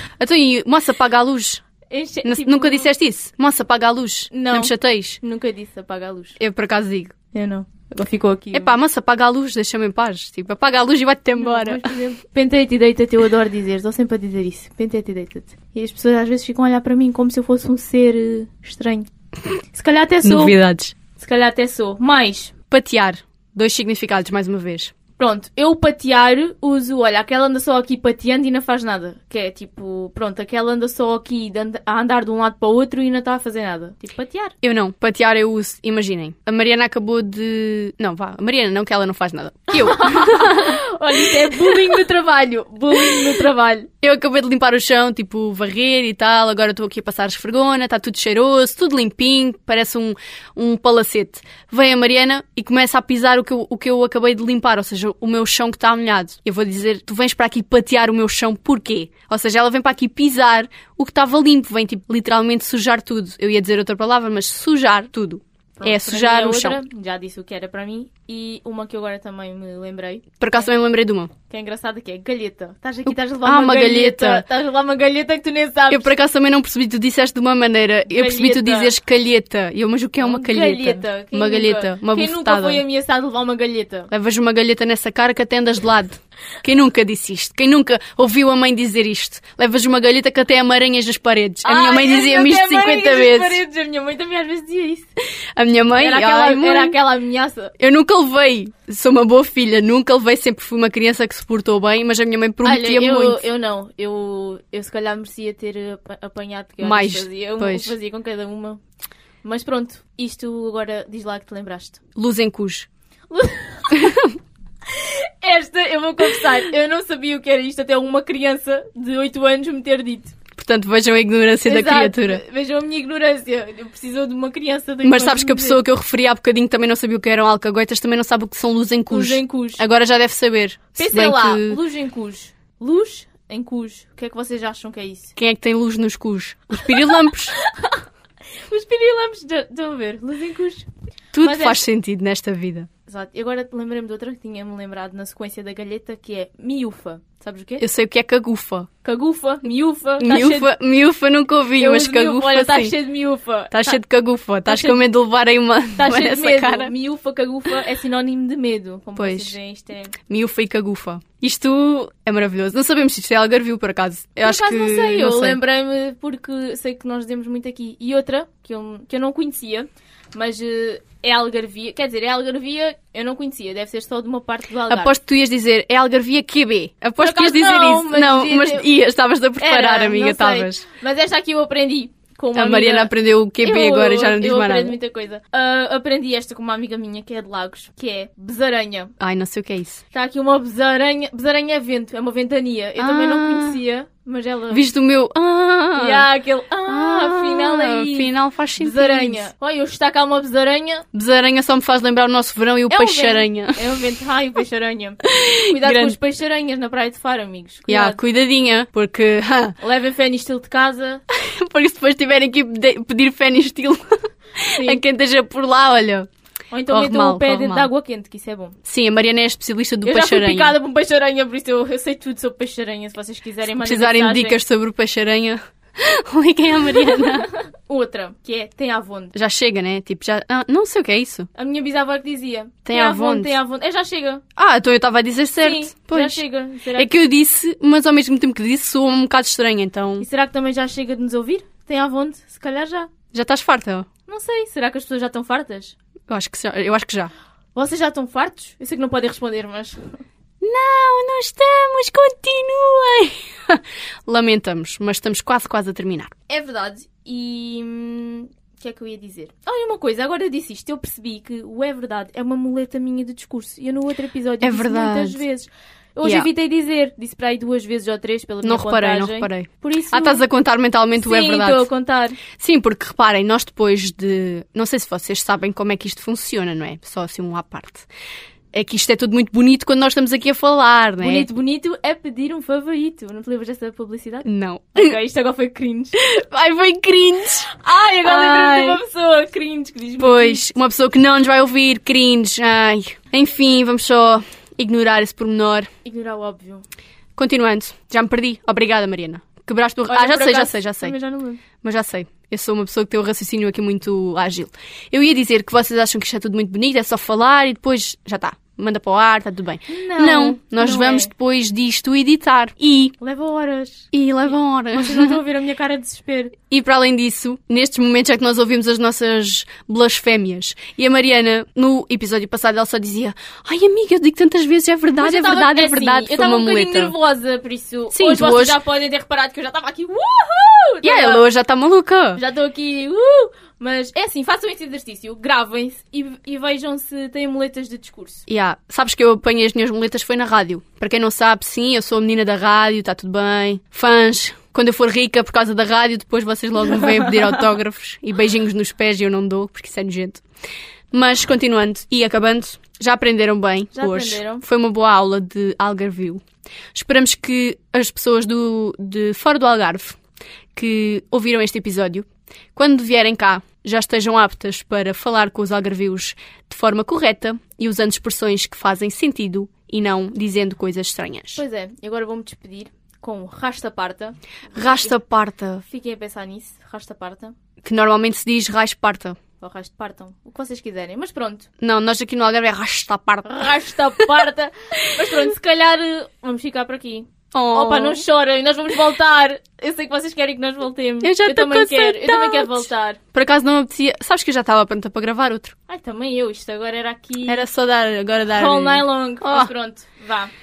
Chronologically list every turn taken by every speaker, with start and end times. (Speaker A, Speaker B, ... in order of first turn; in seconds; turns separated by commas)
Speaker A: 0.2-1.6, Speaker B: 1.9-2.9, Speaker A: 2.2-5.2, Speaker B: 4.3-6.4, Speaker A: 6.4-7.1, Speaker B: 7.3-8.7, Speaker A: 8.5-11.9, Speaker B: 11.4-19.1, Speaker B: 19.7-22.5, Speaker A: 20.2-20.9, Speaker A: 22.7-24.9, Speaker B: 25.2-34.5, Speaker A: 34.6-40.8, Speaker B: 39.7-43.9, Speaker A: 41.5-42.0, Speaker A: 44.0-66.8, Speaker B: 65.8-70.7, Speaker A: 70.4-71.3, Speaker B: 71.5-76.1, Speaker A: 73.1-74.4, Speaker A: 75.9-82.8, Speaker B: 78.1-78.9, Speaker B: 80.2-84.1, Speaker A: 84.1-93.6, Speaker B: 91.6-95.1, Speaker A: 95.6-97.0, Speaker B: 96.0-97.7, Speaker A: 97.8-103.4, Speaker B: 102.6-108.8, Speaker A: 106.8-107.9, Speaker B: 109.4-112.0, Speaker A: 112.2-112.9, Speaker B: 113.3-114.2, Speaker A: 114.0-114.3, Speaker B: 114.9-120.3, Speaker A: 120.5-122.4, Speaker B: 121.6-125.8, Speaker A: 125.0-131.8, Speaker B: 129.1-129.8, Speaker B: 131.0-135.3, Speaker A: 135.4-137.5, Speaker B: 136.8-138.0, Speaker B: 138.7-140.9, Speaker A: 141.3-142.9, Speaker B: 141.4-141.8, Speaker B: 143.1-147.8, Speaker A: 147.8-148.9, Speaker B: 149.0-150.7, Speaker A: 150.2-152.9, Speaker B: 151.8-154.0, Speaker A: 153.7-156.9, Speaker B: 154.7-155.0, Speaker B: 156.0-160.1, Speaker A: 159.2-159.6, Speaker A: 160.3-165.6, Speaker B: 164.4-175.2, Speaker A: 174.9-180.8, Speaker B: 177.2-178.9, Speaker B: 179.6-189.1, Speaker A: 182.5-184.9, Speaker A: 189.2-190.0, Speaker B: 190.1-194.9, Speaker A: 193.0-193.8, Speaker A: 194.7-196.3, Speaker B: 195.9-201.1, Speaker A: 196.9-199.5, Speaker A: 201.1-203.8, Speaker B: 202.9-208.2, Speaker A: 205.2-206.2, Speaker A: 207.9-209.7, Speaker B: 209.8-211.2, Speaker A: 211.3-214.0, Speaker A: 214.6-216.3, Speaker B: 214.7-215.0, Speaker B: 216.7-218.8, Speaker A: 216.9-217.9, Speaker A: 218.8-220.8, Speaker B: 220.0-224.6, Speaker A: 223.8-227.5, Speaker B: 227.1-229.3, Speaker A: 229.3-231.5, Speaker B: 231.6-234.4, Speaker A: 232.8-233.6, Speaker A: 234.6-236.4, Speaker B: 235.6-237.1, Speaker A: 236.9-240.2, Speaker B: 240.2-243.1, Speaker A: 243.3-244.1, Speaker B: 244.3-245.9, Speaker A: 246.3-247.3, Speaker B: 247.7-250.1, Speaker A: 250.6-256.3, Speaker B: 256.5-270.4, Speaker A: 264.6-265.4, Speaker A: 268.6-271.9, Speaker B: 271.2-272.4, Speaker A: 272.5-278.1, Speaker A: 278.7-281.5, Speaker B: 281.2-286.2, Speaker A: 284.4-285.1, Speaker A: 286.2-287.7, Speaker B: 287.7-290.6, Speaker A: 288.2-289.0, Speaker A: 290.2-295.9, Speaker B: 296.0-296.8, Speaker A: 297.4-301.1, Speaker B: 300.1-301.6, Speaker A: 301.8-313.1, Speaker B: 309.9-311.3, Speaker B: 313.2-314.1, Speaker A: 314.1-315.4, Speaker B: 314.9-316.5, Speaker A: 316.7-327.1, Speaker B: 325.2-331.4, Speaker A: 328.1-328.8, Speaker A: 331.0-332.4, Speaker B: 332.3-338.4, Speaker A: 338.5-350.4, Speaker B: 346.9-347.3, Speaker A: 351.1-356.4, Speaker B: 353.9-354.6, Speaker A: 356.9-360.2, Speaker A: 360.7-371.6, Speaker B: 371.5-375.1, Speaker A: 374.7-375.8, Speaker B: 375.9-377.5, Speaker A: 377.8-379.4, Speaker B: 379.6-381.7, Speaker A: 381.8-384.4, Speaker B: 383.4-393.2, Speaker A: 387.5-388.2, Speaker A: 391.2-395.7, Speaker B: 395.9-397.7, Speaker A: 397.4-399.7, Speaker B: 398.5-400.5